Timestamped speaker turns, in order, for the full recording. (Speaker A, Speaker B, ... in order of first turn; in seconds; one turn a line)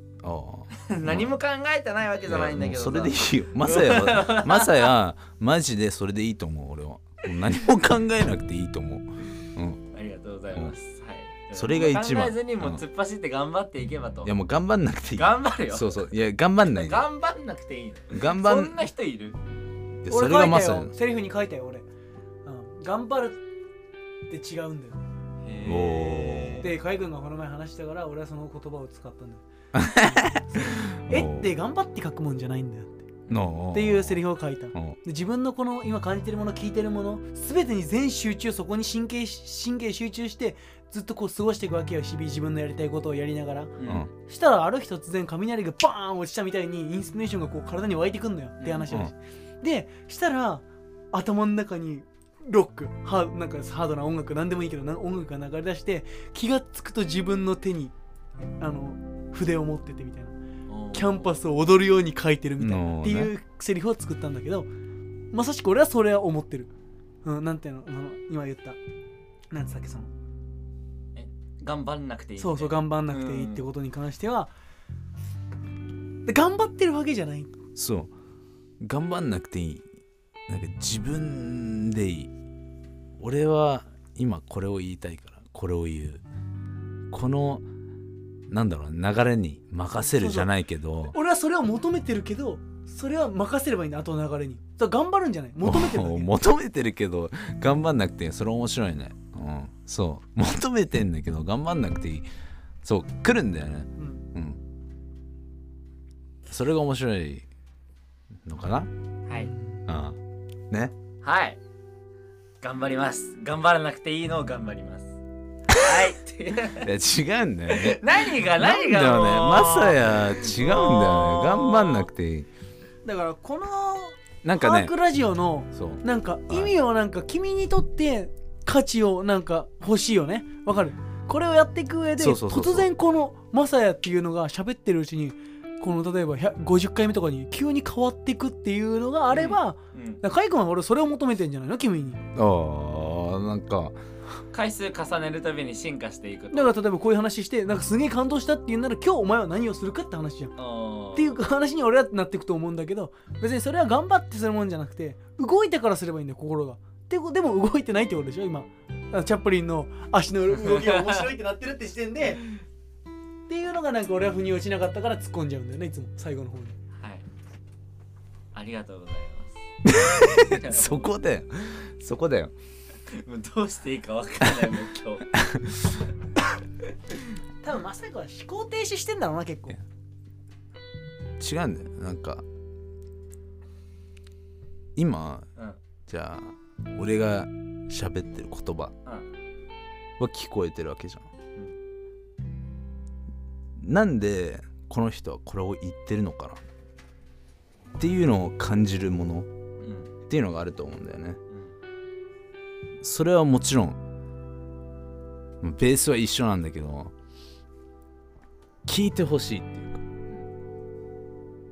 Speaker A: 0.2-1.3
Speaker B: 0.8-4.9
Speaker A: 2.2-9.8
Speaker B: 9.9-14.3
Speaker A: 11.5-12.8
Speaker A: 14.2-17.1
Speaker B: 15.1-16.0
Speaker B: 16.6-19.4
Speaker A: 18.1-18.8
Speaker A: 20.0-20.9
Speaker C: 20.1-21.9
Speaker C: 22.4-23.4
Speaker C: 24.3-25.0
Speaker B: 25.4-26.7
Speaker A: 25.6-26.6
Speaker C: 26.6-33.1
Speaker A: 29.7-31.5
Speaker A: 33.3-34.2
Speaker C: 33.7-57.9
Speaker B: 43.8-44.1
Speaker B: 48.6-48.9
Speaker C: 58.6-60.4
Speaker B: 60.7-61.4
Speaker C: 60.9-64.7
Speaker A: 62.6-63.3
Speaker C: 65.3-66.7
Speaker C: 67.2-68.8
Speaker C: 69.5-70.1
Speaker B: 71.1-73.7
Speaker C: 72.4-74.5
Speaker C: 76.2-77.5
Speaker A: 77.8-78.1
Speaker A: 78.8-79.9
Speaker A: 80.5-82.3
Speaker A: 83.2-86.2
Speaker A: 87.1-87.7
Speaker A: 88.5-91.1
Speaker C: 90.0-90.5
Speaker C: 91.1-96.3
Speaker A: 95.6-102.2
Speaker A: 102.8-104.6
Speaker C: 104.0-104.2
Speaker A: 106.5-107.5
Speaker A: 108.4-108.9
Speaker C: 109.3-109.8
Speaker A: 109.8-110.2
Speaker B: 111.2-111.6
Speaker B: 112.6-115.2
Speaker B: 115.7-116.9
Speaker A: 116.8-122.5
Speaker B: 117.7-122.1
Speaker C: 123.0-142.2
Speaker A: 124.4-124.9
Speaker A: 125.7-126.7
Speaker A: 132.2-132.9
Speaker B: 139.3-140.2
Speaker A: 142.3-144.0
Speaker B: 144.5-146.7
Speaker C: 146.5-150.6
Speaker B: 150.6-151.4
Speaker C: 151.1-162.4
Speaker B: 160.5-161.3
Speaker C: 163.5-166.8
Speaker B: 167.0-167.2
Speaker B: 168.5-171.1
Speaker A: 169.8-172.5
Speaker B: 173.1-175.4
Speaker C: 177.6-179.8
Speaker A: 181.4-182.4
Speaker A: 184.9-185.5
Speaker A: 186.1-188.9
Speaker A: 190.2-191.3
Speaker A: 193.8-196.6
Speaker A: 198.0-199.5
Speaker B: 199.8-200.1
Speaker A: 200.3-201.4
Speaker B: 201.5-201.7
Speaker A: 203.0-204.0
Speaker A: 205.6-207.1
Speaker A: 208.8-210.0